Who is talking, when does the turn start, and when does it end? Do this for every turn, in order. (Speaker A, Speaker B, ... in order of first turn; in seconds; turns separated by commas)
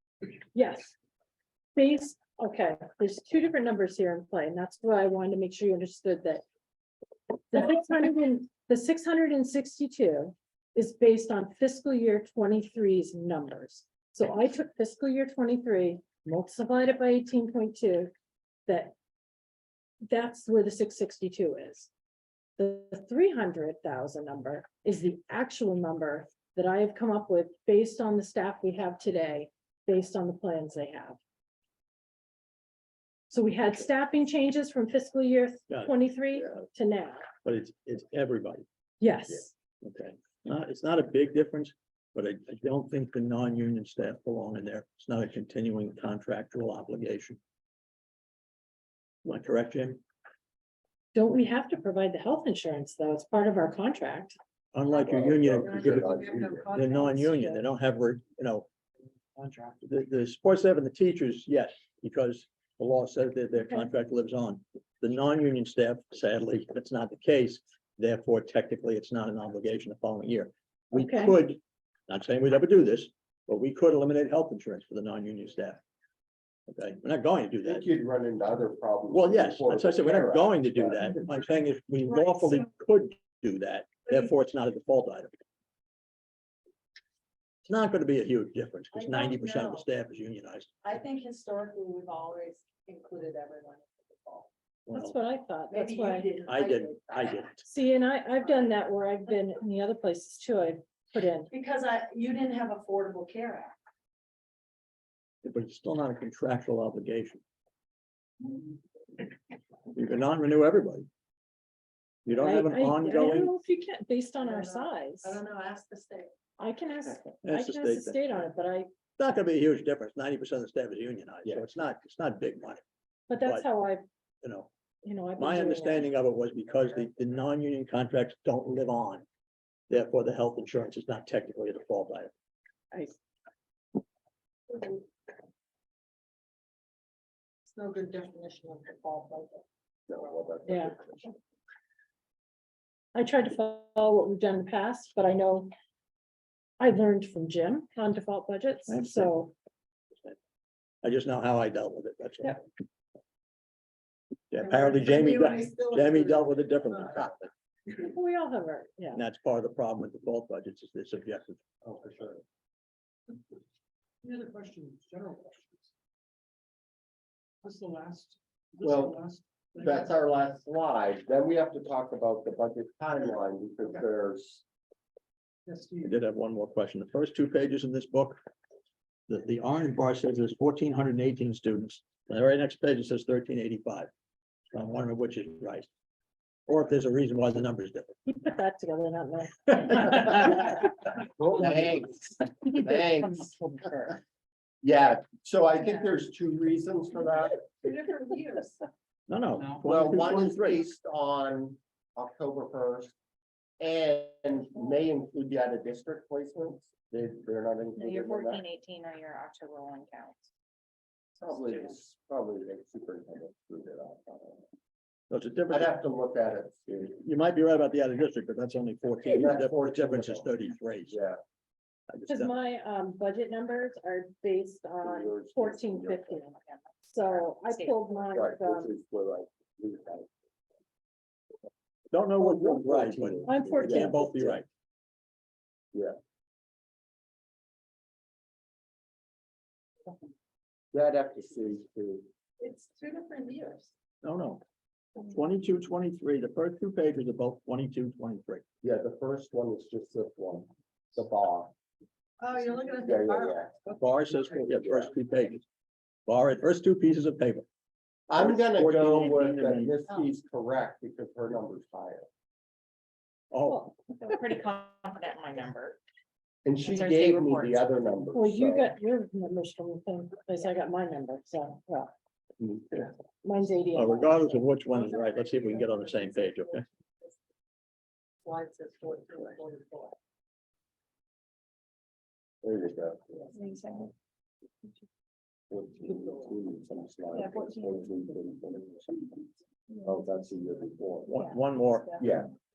Speaker A: 0.5-0.9, Speaker A: 1.8-6.4, Speaker A: 7.5-18.1, Speaker A: 18.7-18.9, Speaker A: 20.1-21.9, Speaker A: 22.6-31.2, Speaker A: 33.3-37.3, Speaker B: 37.4-38.6, Speaker A: 39.0-39.5, Speaker B: 39.8-47.4, Speaker B: 49.2-50.0, Speaker A: 51.1-54.4, Speaker B: 54.7-58.7, Speaker C: 55.0-56.7, Speaker D: 55.8-57.6, Speaker D: 59.4-59.7, Speaker B: 59.8-75.8, Speaker A: 70.9-71.4, Speaker B: 76.7-77.8, Speaker C: 77.6-81.1, Speaker B: 79.1-85.4, Speaker B: 87.7-90.7, Speaker D: 88.9-89.9, Speaker D: 90.8-94.5, Speaker B: 94.9-95.2, Speaker A: 94.9-96.5, Speaker D: 95.7-97.5, Speaker B: 96.5-97.7, Speaker A: 97.6-101.5, Speaker D: 101.7-103.7, Speaker B: 105.4-107.4, Speaker B: 109.9-111.1, Speaker B: 112.3-113.5, Speaker A: 112.3-115.4, Speaker D: 114.4-116.3, Speaker A: 116.6-118.9, Speaker B: 117.4-118.2, Speaker B: 119.2-122.8, Speaker A: 123.3-124.0, Speaker B: 124.4-124.7, Speaker A: 125.0-126.1, Speaker B: 125.4-129.2, Speaker B: 129.9-132.3, Speaker D: 134.7-135.0, Speaker D: 137.7-140.4, Speaker C: 140.1-141.3, Speaker A: 140.7-140.9, Speaker A: 143.1-145.7, Speaker A: 146.8-149.5, Speaker B: 148.9-149.3, Speaker B: 151.0-152.6, Speaker B: 154.5-157.5, Speaker D: 154.6-156.6, Speaker A: 158.0-159.2, Speaker B: 159.2-161.6, Speaker C: 161.8-162.4, Speaker E: 164.2-165.9, Speaker E: 167.6-170.1, Speaker C: 168.8-169.2, Speaker C: 169.8-174.6, Speaker E: 175.7-176.1, Speaker B: 176.0-178.4, Speaker B: 179.3-184.1, Speaker B: 184.7-185.9, Speaker B: 186.7-188.2, Speaker A: 188.3-190.7, Speaker C: 191.4-193.5, Speaker D: 193.7-194.1, Speaker C: 194.8-197.7, Speaker D: 197.7-198.8, Speaker B: 199.3-200.8, Speaker C: 199.8-203.1, Speaker C: 203.8-208.6, Speaker F: 208.0-210.5, Speaker C: 211.4-214.7, Speaker B: 215.3-216.0, Speaker C: 215.7-217.2, Speaker B: 217.2-221.2, Speaker C: 219.3-220.5, Speaker C: 221.1-221.4, Speaker B: 222.1-222.5, Speaker A: 222.3-226.6, Speaker C: 225.0-226.4, Speaker F: 226.6-228.3, Speaker A: 227.1-228.9, Speaker C: 228.3-230.3, Speaker B: 232.1-234.7, Speaker C: 232.4-234.6, Speaker A: 233.5-234.6, Speaker C: 240.9-242.3, Speaker D: 242.6-243.9, Speaker B: 244.2-244.6, Speaker B: 245.2-248.6, Speaker C: 248.8-251.7, Speaker D: 252.4-254.0, Speaker C: 252.9-253.8, Speaker B: 254.0-255.7, Speaker C: 254.6-255.1, Speaker B: 256.3-257.7, Speaker C: 258.3-262.3, Speaker B: 258.4-259.9, Speaker B: 263.5-263.9, Speaker F: 264.1-266.0, Speaker C: 266.6-268.9, Speaker F: 266.8-267.9, Speaker A: 268.3-272.1, Speaker A: 273.4-274.8, Speaker B: 273.9-276.8, Speaker D: 278.4-280.1, Speaker C: 282.6-283.4, Speaker F: 283.6-284.1, Speaker C: 285.7-289.4, Speaker C: 290.0-291.3, Speaker B: 291.3-292.2, Speaker C: 292.2-292.5